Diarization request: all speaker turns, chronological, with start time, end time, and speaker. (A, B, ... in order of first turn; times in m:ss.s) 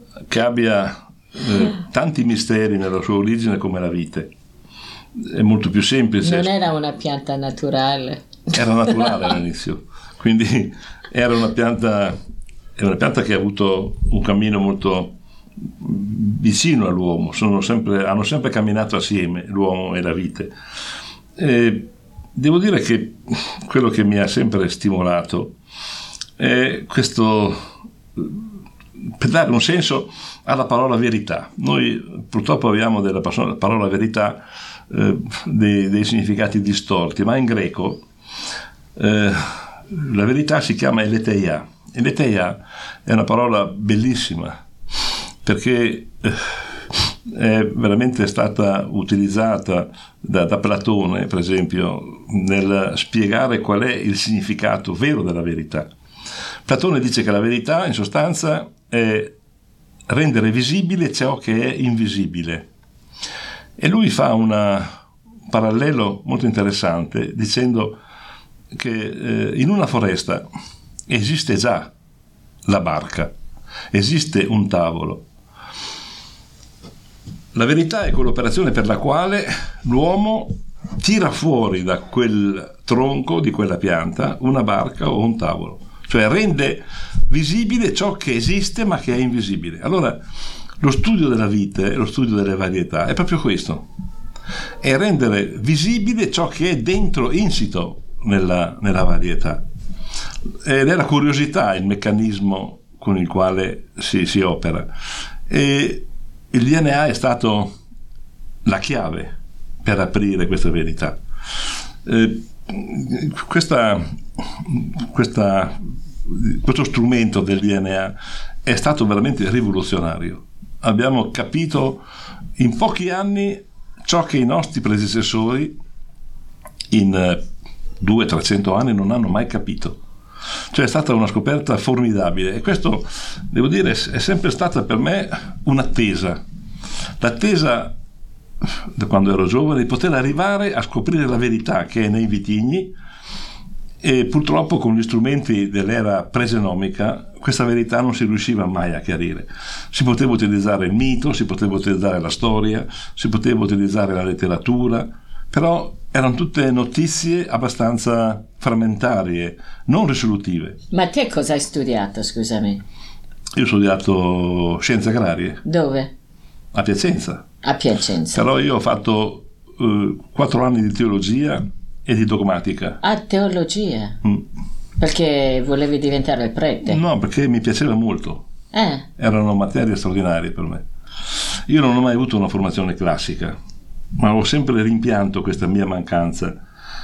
0:00.3-0:04.3 A
0:05.2-0:06.5 A
0:06.2-0:08.2 B
0:08.6-0:12.2 A
0:12.8-0:15.1 A
0:15.8-0:20.5 A
0:21.4-0:25.5 A
0:26.4-0:27.6 A
0:29.2-0:38.0 A
0:39.0-0:44.6 A
0:45.4-0:55.9 A
0:56.7-0:59.4 A
1:00.1-1:02.7 A
1:03.8-1:04.9 A
1:05.5-1:08.0 A
1:08.8-1:10.4 A
1:11.1-1:11.9 A
1:12.7-1:13.3 A
1:13.9-1:15.2 A
1:17.6-1:30.2 A
1:30.8-1:33.9 A
1:34.8-1:39.6 A
1:40.6-1:44.9 A
1:45.5-1:47.7 A
1:48.6-1:49.3 A
1:49.8-1:51.2 A
1:52.1-1:54.0 A
1:54.6-1:55.8 A
1:56.3-1:58.1 A
1:58.7-2:02.0 A
2:02.6-2:05.8 A
2:06.9-2:07.4 A
2:08.0-2:10.0 A
2:10.7-2:16.4 A
2:17.2-2:17.9 A
2:19.0-2:23.0 A
2:24.0-2:40.8 A
2:40.9-2:42.8 B
2:43.6-2:45.6 A
2:45.6-2:46.1 B
2:46.7-2:47.4 A
2:47.6-2:48.4 B
2:48.3-2:53.0 A
2:53.0-2:54.2 B
2:55.0-2:57.0 B
2:56.9-2:58.4 A
2:58.7-2:59.1 B
2:59.2-3:00.8 A
3:01.7-3:03.6 A
3:04.2-3:06.6 A